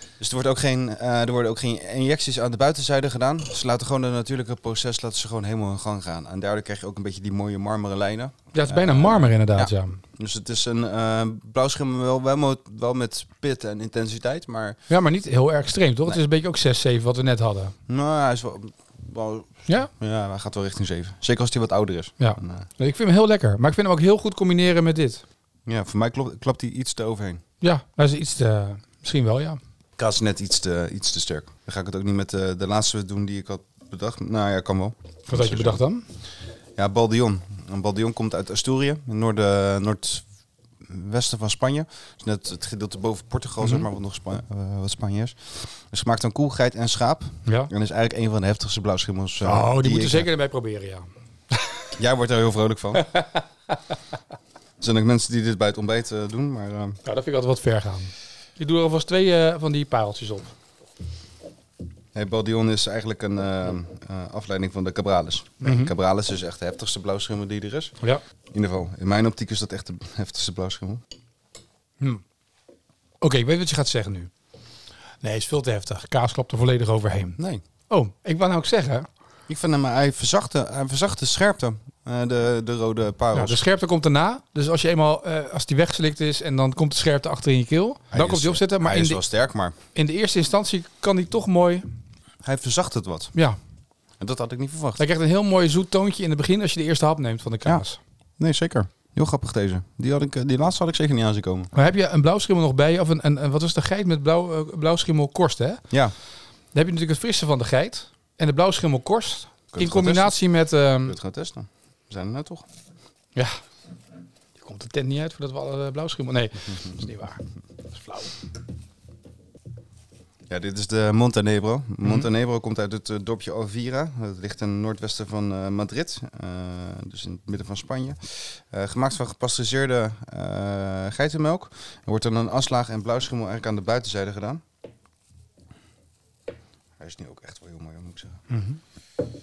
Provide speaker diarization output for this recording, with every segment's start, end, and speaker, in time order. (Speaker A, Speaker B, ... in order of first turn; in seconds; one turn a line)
Speaker A: 0.2-14.8
Speaker B: 8.5-10.0
Speaker B: 14.9-17.7
Speaker A: 17.9-22.7
Speaker B: 22.2-25.2
Speaker A: 25.6-27.4
Speaker B: 27.6-29.6
Speaker A: 30.0-35.8
Speaker B: 35.3-36.0
Speaker A: 36.8-40.3
Speaker A: 40.8-50.3
Speaker B: 43.6-43.9
Speaker B: 47.4-47.7
Speaker B: 49.4-51.7
Speaker A: 52.0-53.1
Speaker B: 53.0-53.7
Speaker A: 54.8-57.0
Speaker B: 57.0-60.5
Speaker A: 62.1-67.9
Speaker B: 65.6-65.9
Speaker A: 68.5-71.0
Speaker B: 73.2-74.3
Speaker B: 75.2-79.1
Speaker A: 77.4-77.6
Speaker A: 79.5-83.6
Speaker B: 83.3-89.2
Speaker A: 88.1-89.7
Speaker B: 89.9-91.8
Speaker A: 92.4-93.3
Speaker A: 94.2-95.0
Speaker B: 95.0-98.0
Speaker A: 98.4-101.7
Speaker B: 101.7-111.2
Speaker A: 109.7-110.4
Speaker A: 111.0-112.6
Speaker B: 113.3-113.6
Speaker B: 114.5-118.4
Speaker A: 120.5-134.6
Speaker A: 137.0-138.4
Speaker B: 138.5-138.8